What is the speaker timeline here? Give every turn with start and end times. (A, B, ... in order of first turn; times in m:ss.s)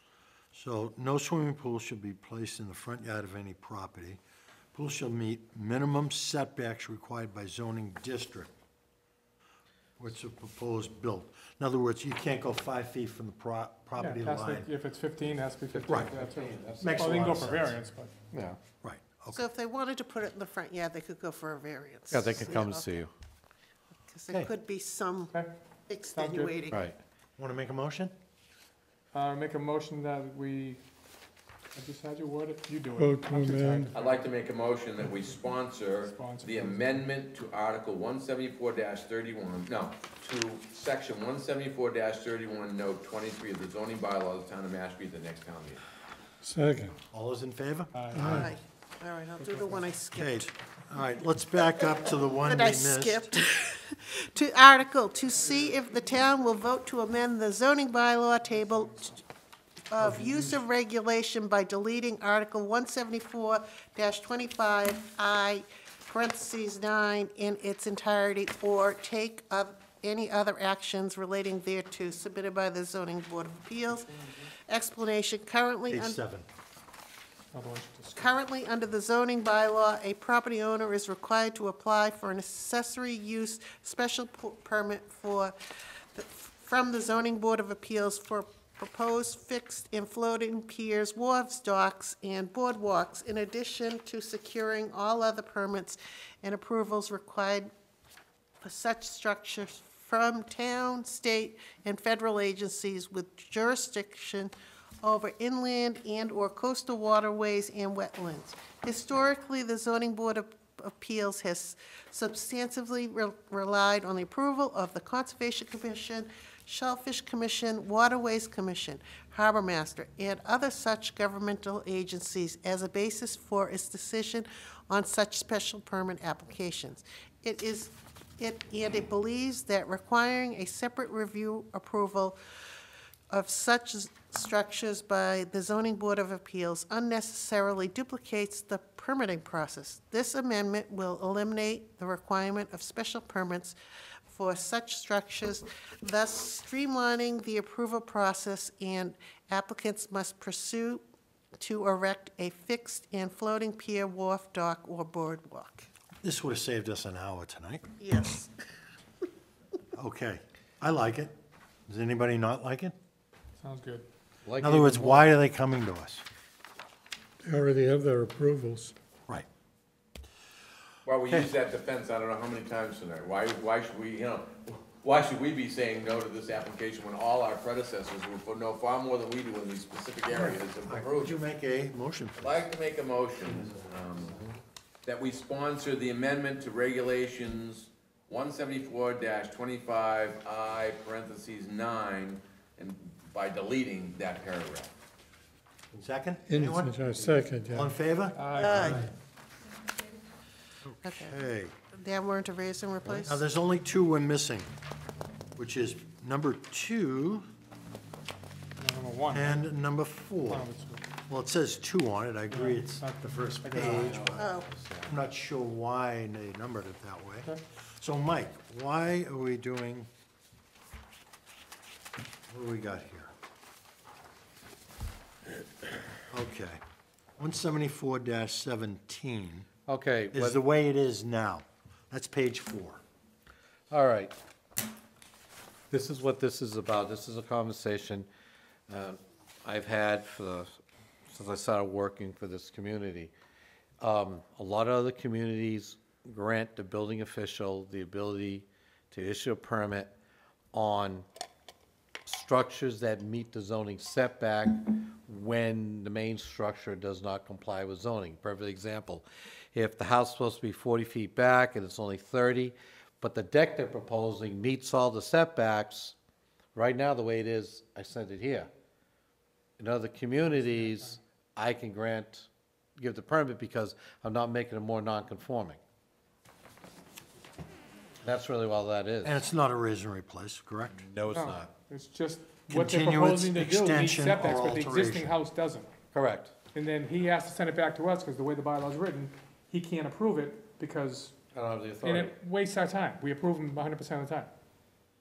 0:00.5-0:04.2 A
0:04.7-0:08.5 A
0:10.0-0:14.7 A
0:14.0-0:18.2 B
0:15.7-0:17.2 C
0:15.8-0:16.2 A
0:16.8-0:17.7 A
0:18.3-0:18.6 C
0:18.8-0:19.4 A
0:19.3-0:22.8 D
0:22.1-0:23.1 C
0:24.1-0:25.3 D
0:25.9-0:26.8 D
0:26.1-0:26.6 B
0:26.7-0:27.0 C
0:27.4-0:28.1 A
0:29.1-0:30.8 B
0:31.8-0:34.2 B
0:32.9-0:33.9 E
0:33.9-0:45.8 F
0:36.0-0:36.8 B
0:46.4-0:47.0 E
0:47.1-0:48.5 A
0:47.9-0:48.3 B
0:48.1-0:48.5 E
0:48.2-0:50.5 D
0:50.1-0:53.3 A
0:52.4-0:59.2 D
0:59.9-1:16.2 D
1:00.0-1:00.5 A
1:15.9-1:16.4 A
1:17.5-1:18.3 B
1:18.2-1:25.5 D
1:26.1-1:37.7 D
1:38.6-1:44.5 D
1:45.0-2:12.4 D
2:13.3-2:23.8 D
2:24.3-2:31.0 D
2:31.6-2:35.9 D
2:36.2-2:37.8 A
2:38.0-2:38.5 D
2:39.9-2:41.3 A
2:41.9-2:42.9 A
2:43.6-2:44.1 B
2:44.4-2:45.3 C
2:44.6-2:46.2 A
2:47.4-2:48.9 E
2:51.0-3:01.4 F
3:00.3-3:02.6 A
3:02.4-3:04.4 F
3:03.5-3:03.8 A
3:05.0-3:14.9 F
3:15.9-3:19.0 A
3:16.5-3:17.9 E
3:18.3-3:19.1 B
3:18.5-3:19.0 D
3:20.8-3:21.8 A
3:21.0-3:21.4 D
3:21.9-3:23.4 D
3:23.1-3:24.7 A
3:25.6-3:27.4 A
3:28.8-3:29.6 B
3:29.3-3:30.7 A
3:30.5-3:31.0 B
3:31.3-3:34.5 A
3:32.5-3:34.3 B
3:33.7-3:35.1 C
3:34.3-3:34.7 D
3:35.0-3:40.1 A
3:42.5-3:43.3 A
3:46.3-3:46.8 A
3:47.4-3:49.7 A
3:49.9-3:50.6 C
3:50.3-3:53.0 A
3:53.9-3:54.3 C
3:55.9-3:58.3 C
3:58.9-4:00.7 C
4:01.3-4:03.3 C
4:04.0-4:10.1 C
4:10.7-4:11.2 C
4:12.2-4:26.1 C
4:26.7-4:28.7 C
4:29.8-4:35.8 C
4:30.5-4:31.1 B
4:38.2-4:39.4 C
4:39.2-4:41.0 A
4:41.0-4:41.7 C
4:41.3-4:45.9 B
4:42.7-4:45.3 A
4:46.1-4:46.5 C
4:46.7-4:51.3 B
4:51.5-4:52.3 C
4:52.0-4:54.5 B